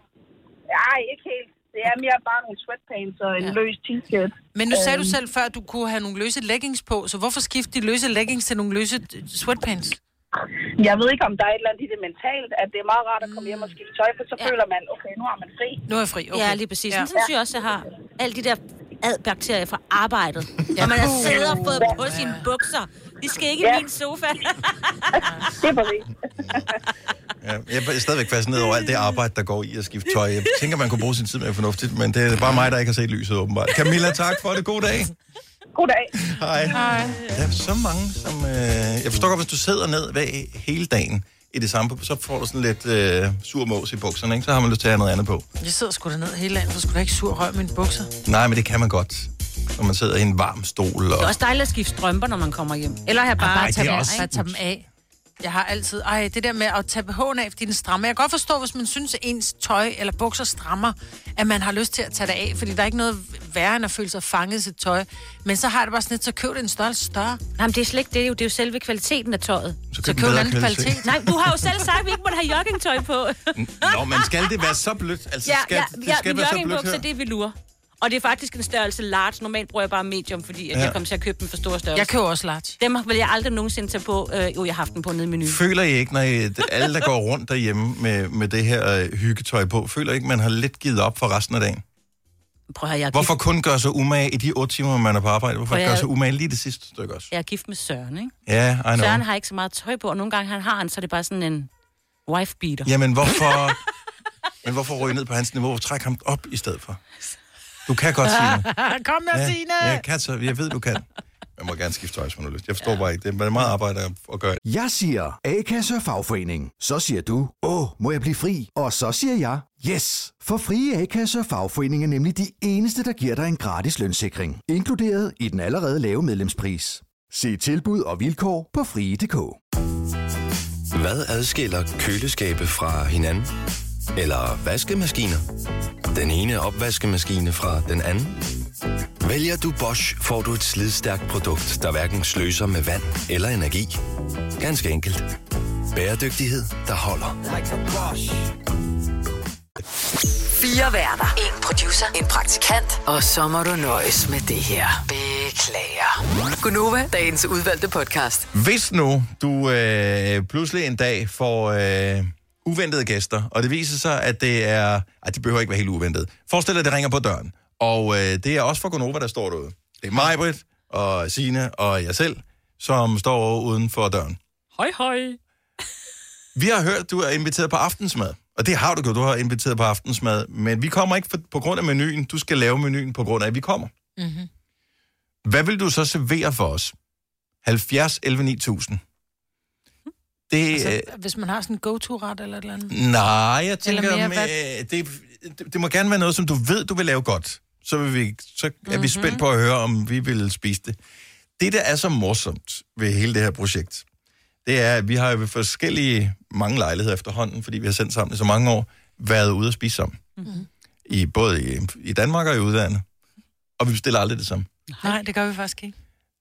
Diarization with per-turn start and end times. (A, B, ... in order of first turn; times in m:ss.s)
0:00.7-0:05.1 A
0:04.6-0:10.0 B
0:10.8-0:15.8 A
0:13.2-0:13.8 B
0:15.9-0:17.1 B
0:16.3-0:25.0 C
0:20.7-0:22.4 B
0:23.6-0:23.9 A
0:25.6-0:26.6 A
0:27.4-0:35.1 D
0:35.8-0:36.1 A
0:36.2-0:45.5 D
0:36.7-0:37.2 B
0:45.6-0:48.1 B
0:48.2-0:51.4 D
0:51.2-0:54.2 C
0:53.4-0:54.6 D
0:53.4-0:54.9 B
0:55.4-1:07.4 B
1:07.6-1:09.8 C
1:09.9-1:11.1 D
1:10.0-1:11.2 B
1:11.0-1:14.5 C
1:13.6-1:17.0 D
1:15.4-1:22.1 C
1:20.7-1:21.0 D
1:22.0-1:22.8 B
1:22.8-1:25.6 C
1:25.4-1:31.8 D
1:32.7-1:33.4 C
1:33.1-1:37.3 D
1:35.7-1:36.1 C
1:37.3-1:38.3 C
1:38.5-1:39.2 D
1:39.0-1:41.7 C
1:42.3-1:42.9 C
1:42.8-1:43.8 D
1:44.6-1:47.0 D
1:47.9-1:48.7 D
1:48.2-1:50.0 B
1:49.3-1:51.0 D
1:51.6-1:54.6 D
1:54.6-2:09.6 E
2:10.9-2:13.5 F
2:14.2-2:15.4 F
2:16.1-2:18.4 F
2:19.2-2:24.0 F
2:24.6-2:25.3 F
2:25.9-2:27.4 F
2:30.6-2:38.5 G
2:38.5-2:54.4 D
2:54.8-2:55.4 C
2:56.6-3:03.9 D
3:04.2-3:04.5 B
3:05.4-3:06.9 D
3:07.6-3:09.0 D
3:10.5-3:11.1 D
3:10.7-3:12.9 B
3:12.9-3:21.0 D
3:13.8-3:14.5 B
3:18.9-3:19.4 C
3:21.6-3:24.0 D
3:24.6-3:30.2 D
3:31.1-3:33.0 D
3:33.8-3:34.7 D
3:34.9-3:35.2 C
3:35.0-3:36.0 B